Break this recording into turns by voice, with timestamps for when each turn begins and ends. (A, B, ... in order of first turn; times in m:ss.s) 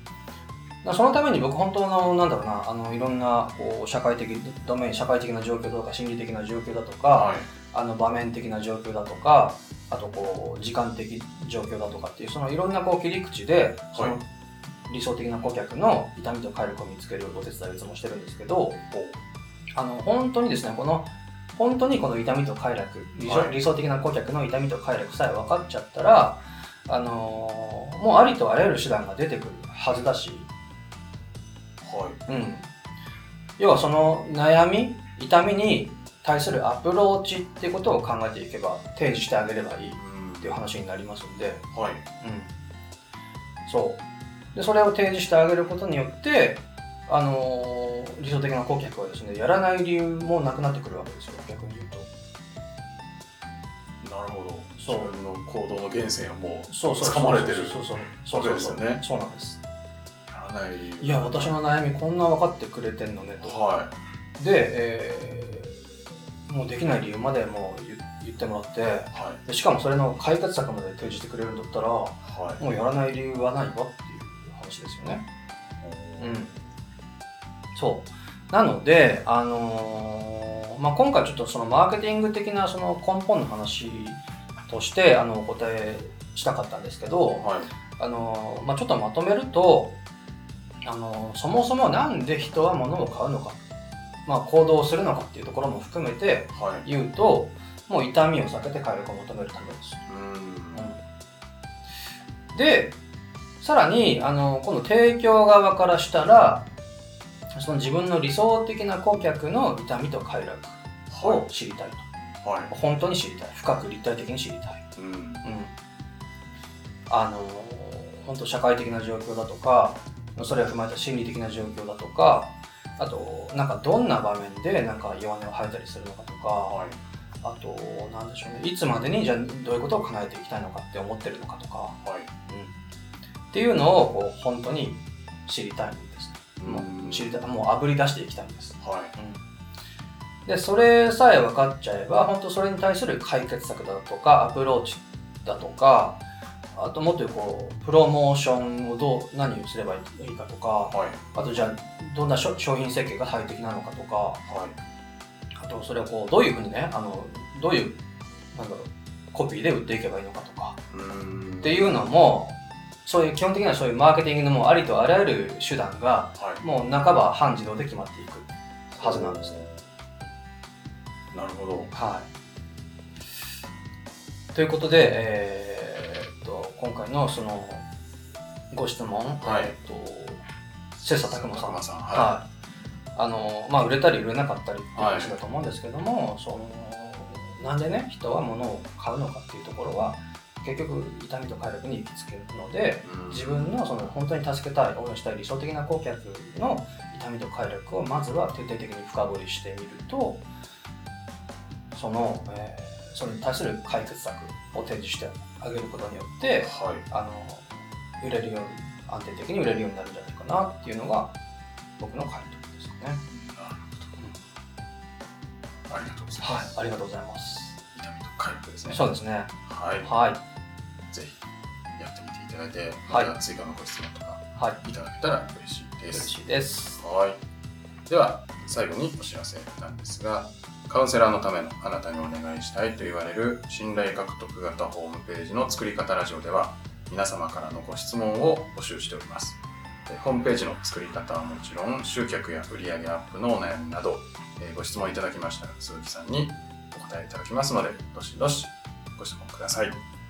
0:00.8-0:14.2 A
0:07.1-0:07.4 B
0:14.8-0:18.8 A
0:18.9-0:19.2 B
0:19.8-0:30.5 A
0:23.2-0:23.5 B
0:31.8-0:32.2 B
0:32.3-0:32.7 A
0:33.6-0:41.7 A
0:40.0-0:40.5 B
0:41.7-0:42.0 B
0:42.2-0:42.6 A
0:43.6-0:44.0 A
0:44.5-0:52.1 A
0:54.0-0:59.0 B
0:54.8-0:55.1 A
0:56.7-0:59.6 A
1:00.3-1:01.5 B
1:01.0-1:03.6 A
1:03.4-1:03.9 B
1:04.4-1:05.9 A
1:06.5-1:15.2 A
1:09.1-1:09.4 B
1:12.2-1:12.6 B
1:15.8-1:16.4 B
1:16.2-1:16.6 A
1:17.7-1:30.0 A
1:27.4-1:27.7 B
1:30.8-1:33.6 A
1:34.2-1:40.0 A
1:36.5-1:36.8 B
1:40.1-1:40.9 B
1:42.5-1:43.0 A
1:43.6-1:46.7 A
1:47.5-1:52.0 A
1:51.1-1:51.4 B
1:52.4-1:52.7 B
1:52.7-1:54.8 A
1:55.0-1:55.4 B
1:55.4-1:55.7 A
1:57.1-2:06.8 A
2:06.7-2:07.0 B
2:07.4-2:12.7 A
2:12.0-2:12.3 B
2:13.5-2:19.4 A
2:16.6-2:17.4 B
2:18.8-2:19.1 B
2:20.4-2:26.2 A
2:26.7-2:34.4 A
2:30.9-2:31.2 B
2:34.5-2:34.8 B
2:35.6-2:38.0 A
2:38.5-2:40.8 A
2:40.9-2:42.0 B
2:41.6-2:49.6 A
2:46.4-2:46.6 B
2:48.9-2:49.8 B
2:51.3-2:51.9 B
2:51.9-2:52.3 A
2:54.5-2:57.8 A
2:58.7-3:00.4 A
2:59.4-2:59.8 B
3:01.0-3:02.3 B
3:01.0-3:02.5 A
3:03.2-3:20.4 A
3:05.0-3:05.4 B
3:13.0-3:13.8 B
3:21.9-3:31.3 A
3:26.6-3:27.0 B
3:32.0-3:33.2 A
3:33.3-3:34.4 B
3:35.9-3:36.7 B
3:36.4-3:37.8 A
3:37.9-3:39.0 B
3:38.9-3:39.5 A
3:39.6-3:40.1 B
3:40.0-3:40.4 A
3:41.1-3:41.4 B
3:42.0-3:46.3 B
3:46.1-3:47.0 A
3:47.0-3:47.4 B
3:48.1-4:10.0 B